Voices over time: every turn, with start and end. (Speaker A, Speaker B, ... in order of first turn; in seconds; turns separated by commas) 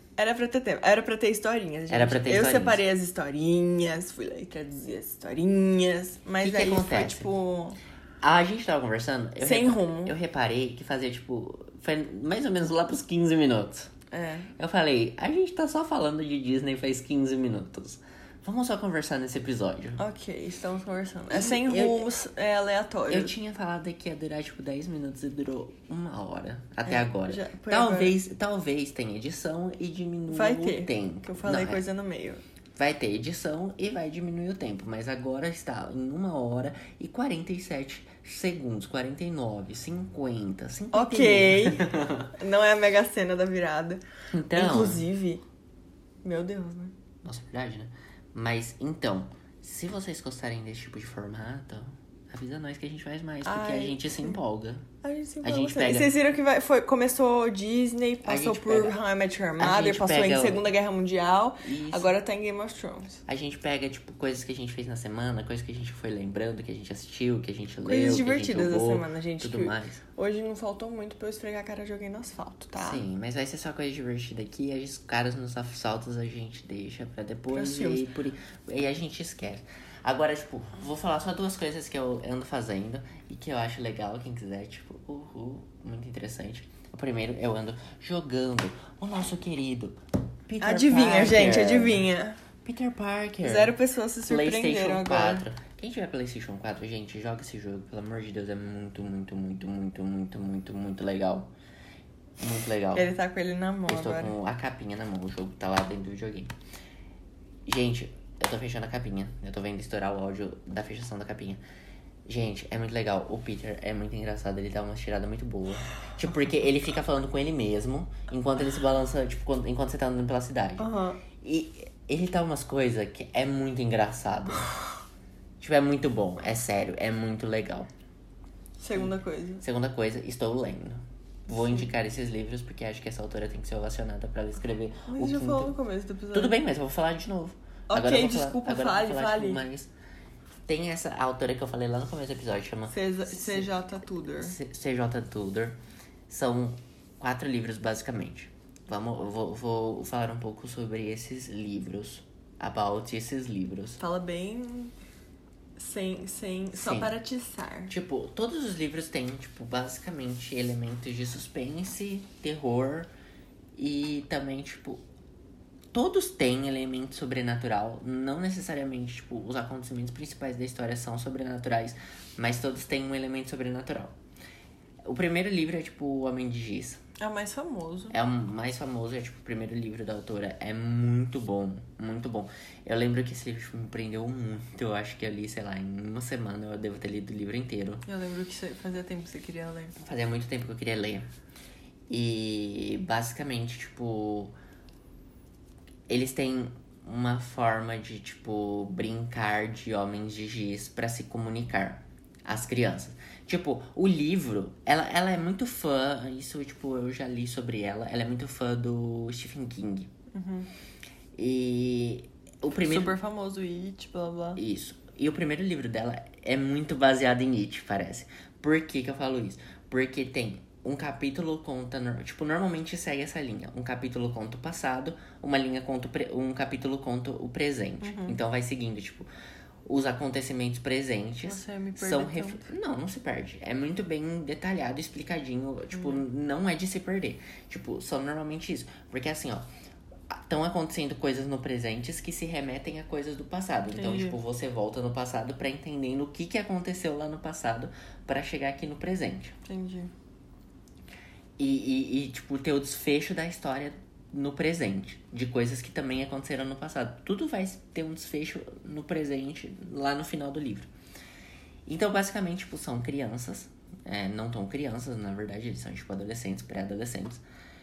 Speaker A: 0.2-7.8, Speaker B: 1.9-2.8, Speaker B: 6.4-7.3, Speaker B: 8.2-13.9, Speaker A: 9.4-10.2, Speaker A: 14.1-14.5, Speaker B: 14.6-20.0, Speaker A: 20.0-23.3, Speaker B: 21.3-22.1, Speaker B: 23.1-31.8, Speaker A: 26.9-28.1, Speaker A: 30.3-32.4, Speaker B: 32.8-42.3, Speaker A: 40.9-45.4, Speaker B: 44.3-45.1, Speaker A: 46.2-47.0, Speaker B: 47.2-54.9, Speaker A: 53.4-54.4, Speaker A: 55.0-63.2, Speaker B: 55.4-56.1, Speaker B: 58.2-59.0, Speaker B: 59.6-60.7, Speaker B: 61.6-62.1, Speaker B: 63.3-70.0, Speaker A: 67.8-73.0, Speaker B: 72.8-92.1, Speaker A: 77.5-78.1, Speaker A: 90.6-92.4, Speaker B: 92.6-101.5, Speaker A: 93.4-95.5, Speaker B: 102.4-103.1, Speaker A: 102.9-104.3, Speaker B: 103.9-106.5, Speaker B: 107.7-111.6, Speaker B: 112.3-124.7, Speaker A: 120.8-121.2, Speaker B: 125.6-127.9, Speaker A: 128.8-129.6, Speaker B: 128.9-135.7, Speaker A: 131.5-131.8, Speaker A: 135.1-136.6, Speaker B: 136.3-139.9, Speaker A: 137.9-139.6, Speaker B: 140.7-143.7, Speaker A: 142.9-144.6, Speaker B: 144.4-145.8, Speaker B: 146.3-154.0, Speaker A: 154.0-154.9, Speaker A: 155.8-157.9, Speaker B: 156.7-157.1, Speaker B: 157.9-163.1, Speaker B: 163.8-165.0, Speaker B: 165.9-174.2, Speaker B: 175.1-177.0, Speaker A: 177.2-178.2, Speaker B: 178.1-188.1, Speaker A: 188.1-190.0, Speaker B: 190.0-191.3, Speaker B: 192.1-194.5, Speaker B: 196.1-210.1, Speaker A: 210.3-210.7, Speaker B: 211.4-213.2, Speaker A: 212.8-214.6, Speaker B: 214.6-229.3, Speaker A: 228.0-228.4, Speaker B: 229.9-239.7, Speaker A: 231.4-232.7, Speaker A: 235.9-236.2, Speaker B: 240.3-249.6, Speaker A: 243.9-244.4, Speaker A: 249.7-250.1, Speaker B: 251.6-260.9, Speaker B: 261.9-267.4